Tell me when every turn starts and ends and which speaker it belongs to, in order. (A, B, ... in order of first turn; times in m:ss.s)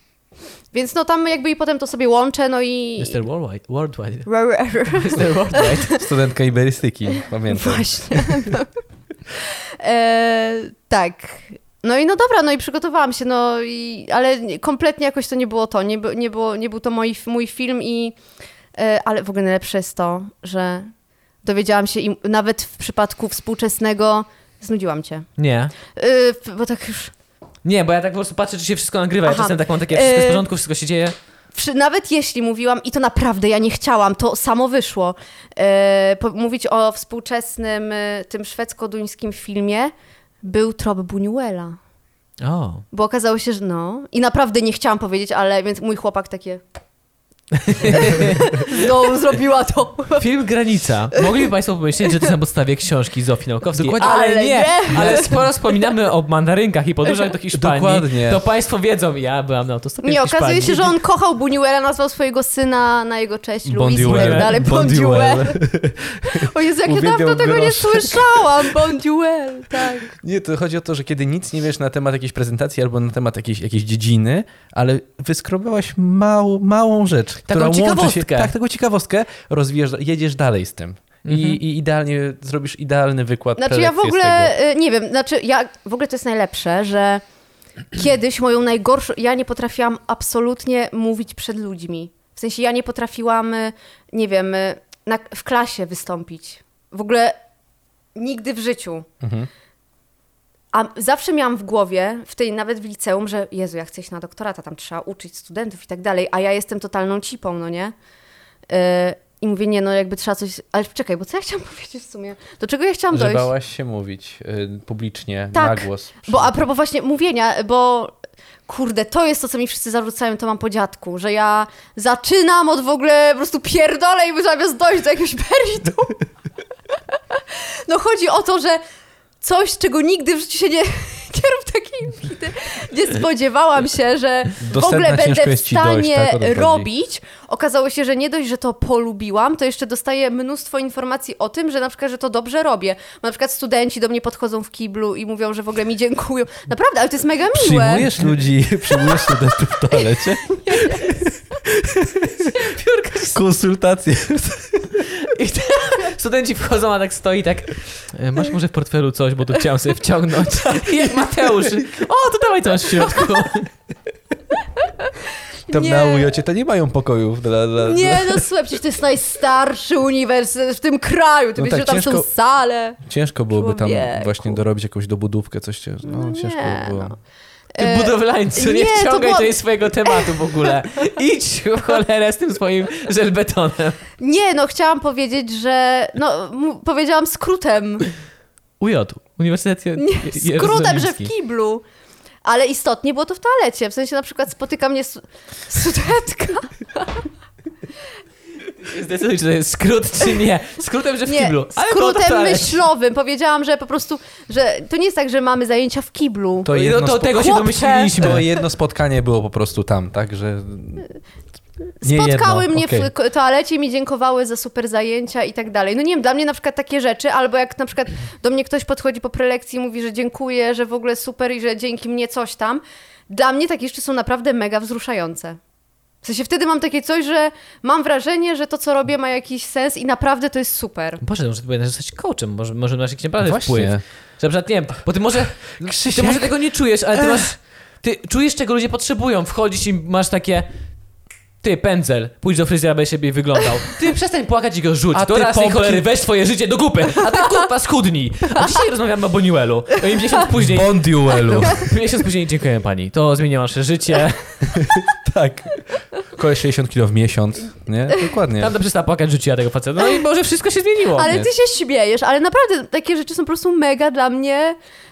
0:00.7-0:03.2 A
0:03.0-0:04.3 B
0:04.3-0:06.0 A
0:04.9-0:06.0 B
0:05.9-0:08.5 C
0:07.5-0:08.7 A
0:09.4-0:18.2 A
0:18.8-0:20.9 A
0:21.4-0:25.3 A
0:25.4-0:25.7 B
0:25.8-0:27.1 A
0:27.6-0:31.2 B
0:29.2-0:30.5 A
0:31.5-0:41.8 A
0:42.4-0:42.8 B
0:42.9-0:46.6 A
0:47.5-0:48.9 B
0:47.8-0:50.3 A
0:50.2-1:01.0 B
0:53.7-0:54.2 C
0:54.0-0:55.9 A
0:54.9-0:55.4 C
0:57.5-0:58.4 C
1:00.0-1:05.6 A
1:03.6-1:08.8 C
1:04.0-1:04.7 B
1:06.2-1:10.1 A
1:10.2-1:24.5 C
1:17.5-1:18.5 B
1:21.2-1:21.6 B
1:23.6-1:27.2 A
1:27.9-1:37.4 A
1:38.2-1:39.1 A
1:39.2-1:39.5 C
1:40.7-1:48.0 A
1:48.7-1:53.5 A
1:53.1-1:56.5 C
1:55.5-1:58.1 A
1:58.7-2:06.3 A
2:07.3-2:08.8 A
2:09.4-2:28.1 A
2:14.6-2:16.9 C
2:27.5-2:32.7 C
2:28.9-2:31.3 A
2:32.6-2:33.4 B
2:33.3-2:35.1 C
2:35.0-2:43.7 B
2:44.9-2:45.2 A
2:45.7-2:46.4 A
2:45.7-2:48.5 C
2:47.8-2:54.6 A
2:51.6-2:52.3 C
2:53.0-2:57.1 C
2:56.0-2:57.2 A
2:57.8-3:00.7 A
2:57.8-3:04.0 B
3:04.2-3:08.1 A
3:08.8-3:11.3 B
3:10.0-3:11.8 A
3:12.4-3:17.3 A
3:18.8-3:22.8 B
3:21.3-3:26.8 A
3:26.6-3:27.6 C
3:26.7-3:28.4 B
3:27.3-3:28.5 A
3:28.1-3:31.1 C
3:32.0-3:45.6 A
3:32.0-3:33.1 C
3:46.2-3:51.2 A
3:51.2-4:00.7 B
3:53.4-3:54.0 C
3:55.8-3:56.6 C
4:01.6-4:14.7 B
4:05.1-4:06.1 C
4:10.6-4:11.9 C
4:11.5-4:11.9 A
4:14.7-4:18.7 C
4:18.6-4:21.4 B
4:21.1-4:24.8 A